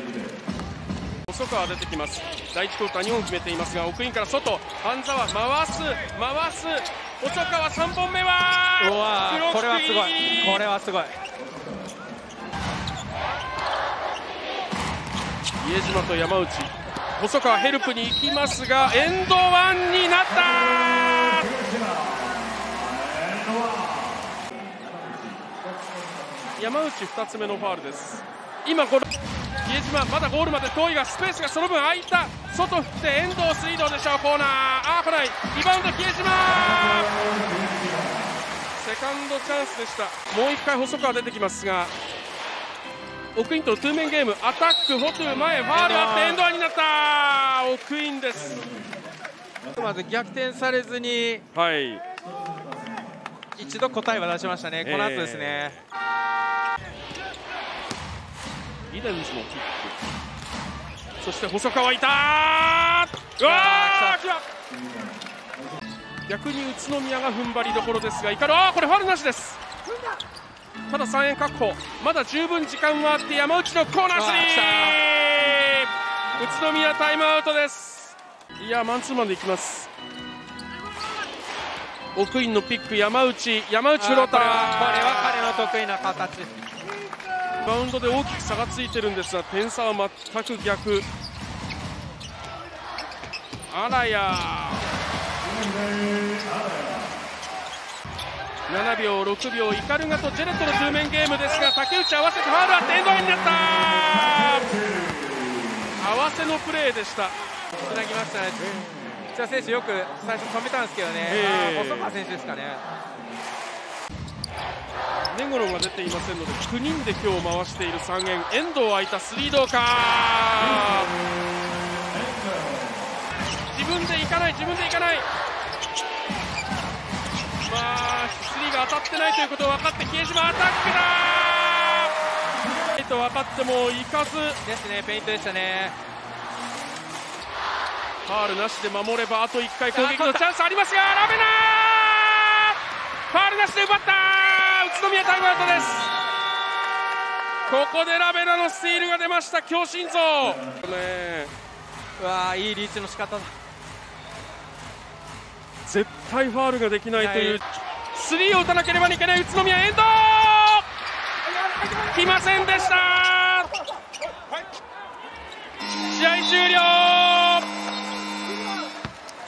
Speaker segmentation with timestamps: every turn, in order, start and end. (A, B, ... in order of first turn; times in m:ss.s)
0:01.3-0:10.6 A
0:08.8-0:11.2 B
0:15.6-0:21.6 A
0:26.5-0:29.1 A
0:29.6-0:37.2 A
0:38.8-0:41.9 A
0:43.3-0:48.6 A
0:45.7-0:46.4 B
0:49.7-0:51.4 B
0:51.5-0:52.0 A
0:53.6-0:55.8 B
0:54.8-0:55.8 A
0:58.9-1:00.0 A
1:01.2-1:04.4 A
1:03.4-1:04.2 B
1:06.3-1:09.6 A
1:10.9-1:19.9 A
1:14.1-1:15.0 B
1:22.1-1:25.7 A
1:24.0-1:26.5 B
1:27.6-1:31.1 A
1:33.7-1:34.9 A
1:38.7-1:44.9 A
1:45.9-1:47.4 A
1:47.8-1:48.8 B
1:49.3-1:52.8 B
1:51.3-1:52.2 A
1:55.3-2:01.2 A
2:03.7-2:05.3 A
2:07.6-2:12.1 A
2:12.9-2:14.6 A
2:14.6-2:16.0 B
2:18.2-2:22.8 A
2:19.9-2:20.4 B
2:23.3-2:26.1 A
2:27.7-2:31.5 A
2:32.2-2:33.5 B
2:35.8-2:40.8 A
2:37.1-2:37.6 B
2:41.8-2:43.7 A
2:46.1-2:47.7 A